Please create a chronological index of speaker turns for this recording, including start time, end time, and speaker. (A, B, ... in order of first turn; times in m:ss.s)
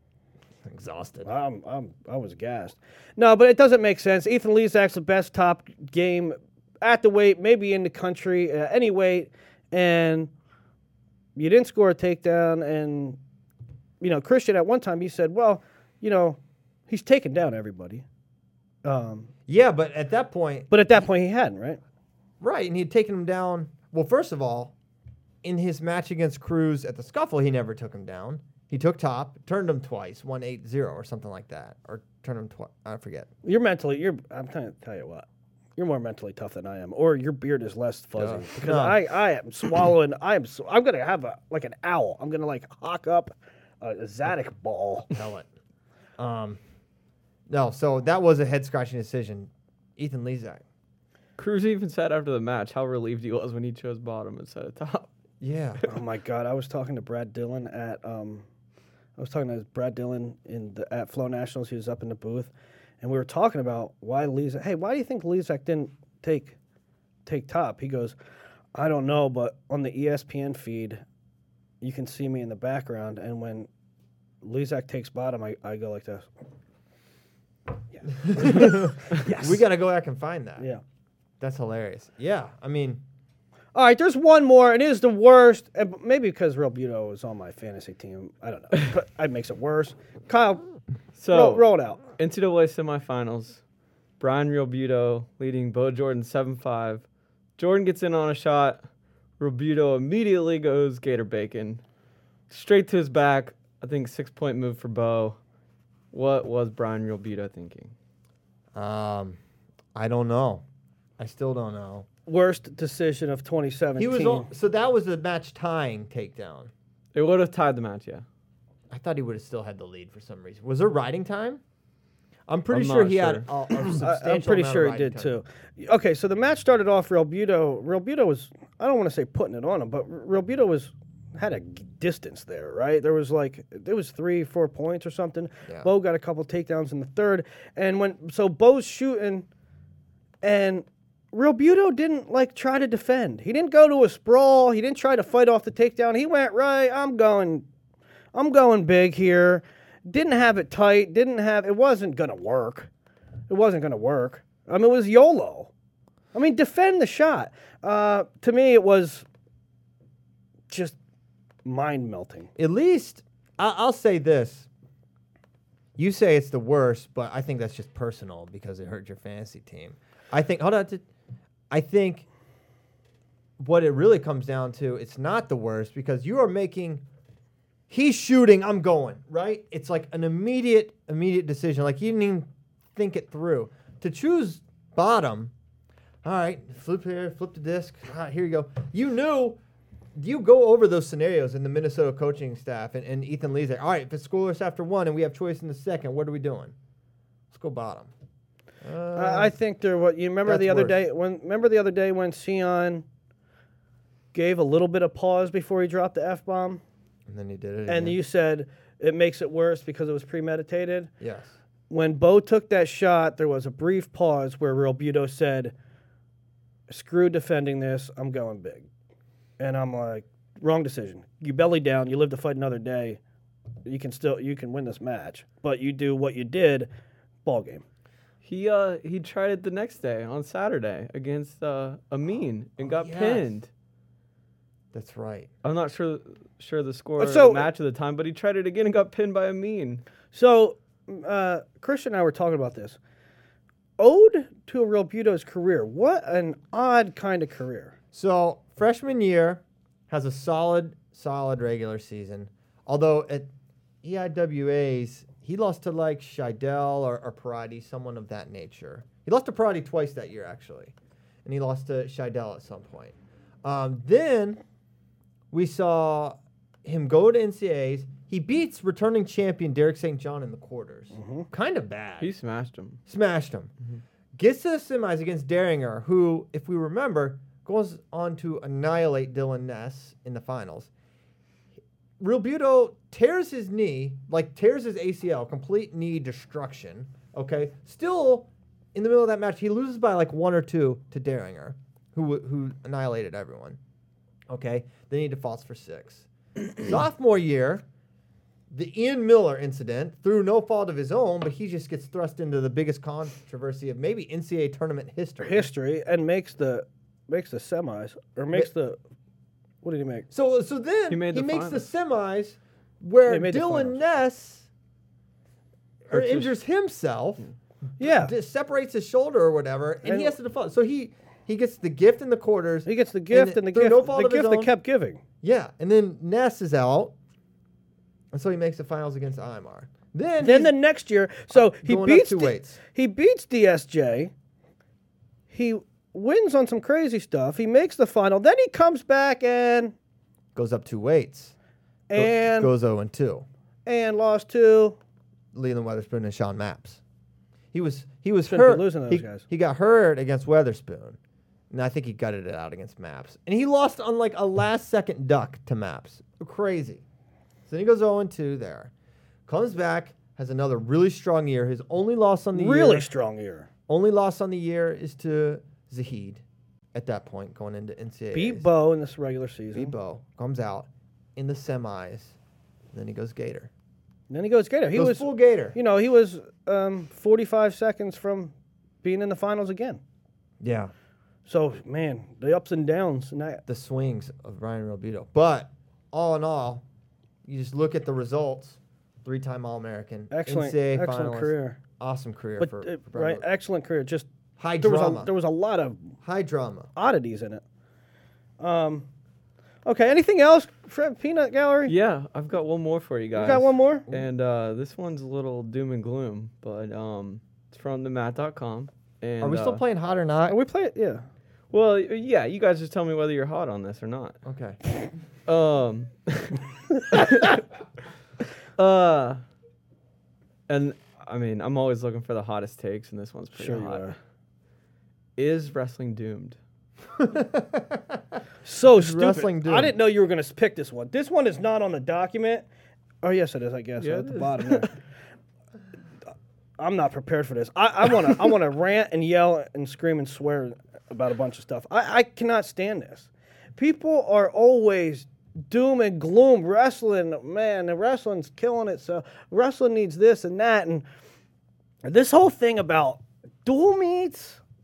0:00.6-0:01.3 A
0:01.2-0:10.3 B
0:11.4-0:13.2 B
0:14.0-0:18.0 B
0:18.8-0:19.3 B
0:19.5-0:20.7 A
0:20.7-0:21.8 B
0:22.4-0:24.7 A
0:25.4-0:33.3 A
0:33.4-0:45.1 B
0:38.2-0:39.0 A
0:45.1-0:45.5 A
0:46.2-0:46.6 A
0:47.5-0:50.6 A
0:51.4-0:55.1 C
0:55.4-0:55.8 A
0:55.9-0:58.4 B
0:59.2-1:06.6 B
1:07.2-1:08.1 B
1:08.7-1:11.0 B
1:11.8-1:13.7 B
1:14.4-1:16.3 B
1:18.0-1:19.6 B
1:18.1-1:20.7 A
1:21.4-1:23.0 A
1:23.7-1:30.6 B
1:31.2-1:33.6 C
1:31.3-1:32.0 B
1:34.2-1:37.0 C
1:37.6-1:38.8 C
1:39.4-1:41.8 C
1:42.5-1:45.4 C
1:46.1-1:47.9 C
1:48.7-1:49.4 A
1:49.9-1:50.6 A
1:51.2-1:52.0 A
1:52.3-1:54.5 B
1:54.0-1:56.7 A
1:57.1-1:58.2 C
1:58.9-2:01.6 A
2:02.5-2:05.4 A
2:02.7-2:03.5 C
2:04.0-2:19.4 B
2:20.4-2:27.6 B
2:28.3-2:32.9 B
2:33.5-2:35.7 B
2:36.3-2:39.2 B
2:40.7-2:41.0 B
2:41.6-2:42.5 B
2:42.6-2:44.7 A
2:46.0-2:51.0 A
2:51.7-2:52.2 A
2:53.6-2:57.0 A
2:57.9-3:05.5 A
3:06.2-3:09.6 A
3:10.2-3:16.7 A
3:17.5-3:18.1 A
3:18.8-3:19.5 A
3:19.2-3:23.0 B
3:20.4-3:21.0 A
3:24.3-3:26.8 B
3:27.3-3:28.2 A
3:27.9-3:31.1 B
3:31.2-3:31.5 A
3:31.9-3:35.7 B
3:36.9-3:38.9 B
3:39.6-3:43.2 B
3:43.8-3:46.9 B
3:47.4-3:47.8 B
3:48.4-3:53.7 C
3:52.8-3:53.5 A
3:54.9-3:55.5 A
3:55.6-4:00.0 C
3:57.2-3:57.7 B
4:00.3-4:03.0 B
4:04.0-4:08.0 B
4:08.1-4:13.5 A
4:14.0-4:20.9 A
4:21.4-4:24.6 A
4:25.5-4:32.3 A
4:31.1-4:31.5 B
4:32.2-4:33.0 C
4:33.1-4:33.7 A
4:34.4-4:40.9 A
4:42.2-4:53.8 A
4:54.5-4:57.8 A
4:58.7-5:05.6 A
5:05.4-5:09.0 B
5:09.8-5:10.3 B
5:10.3-5:14.7 A
5:11.1-5:11.9 C
5:13.3-5:14.0 B
5:16.0-5:17.4 A
5:16.1-5:16.5 C
5:18.0-5:18.3 B
5:18.0-5:24.7 A
5:20.0-5:20.3 B
5:22.8-5:25.2 B
5:25.4-5:27.1 A
5:28.3-5:30.7 A
5:30.4-5:34.3 B
5:31.5-5:32.8 A
5:35.5-5:39.9 B
5:40.5-5:41.5 A
5:42.1-5:42.7 B
5:42.1-5:43.4 A
5:43.8-5:45.0 B
5:45.5-5:47.0 A
5:47.7-5:51.2 A
5:48.4-5:49.4 B
5:51.7-5:57.0 A
5:57.7-5:58.9 A
5:59.5-6:03.1 A
6:02.5-6:03.7 B
6:03.9-6:06.4 A
6:06.9-6:08.7 A
6:08.3-6:09.9 B
6:09.7-6:12.4 A
6:12.9-6:13.7 A
6:14.3-6:20.0 B
6:14.9-6:15.8 A
6:20.6-6:20.9 A
6:21.4-6:23.6 B
6:23.7-6:26.8 A
6:27.4-6:33.4 A
6:30.3-6:31.8 B
6:32.6-6:34.3 B
6:34.6-6:35.3 A
6:34.8-6:36.1 B
6:36.2-6:36.9 A
6:36.9-6:37.6 B
6:38.6-6:39.1 B
6:39.8-6:41.9 B
6:41.9-6:49.8 C
6:43.3-6:44.0 B
6:49.4-6:50.6 A
6:50.5-6:51.2 B
6:51.7-6:54.4 C
6:54.4-6:54.8 A
6:55.5-6:57.6 C
6:58.8-6:59.4 C
7:00.7-7:04.1 C
7:03.5-7:04.2 B
7:05.4-7:06.6 C
7:07.2-7:08.2 A
7:08.6-7:12.7 B
7:08.9-7:09.9 A
7:13.2-7:14.9 B
7:14.0-7:14.9 C
7:16.8-7:31.0 B
7:32.0-7:34.6 B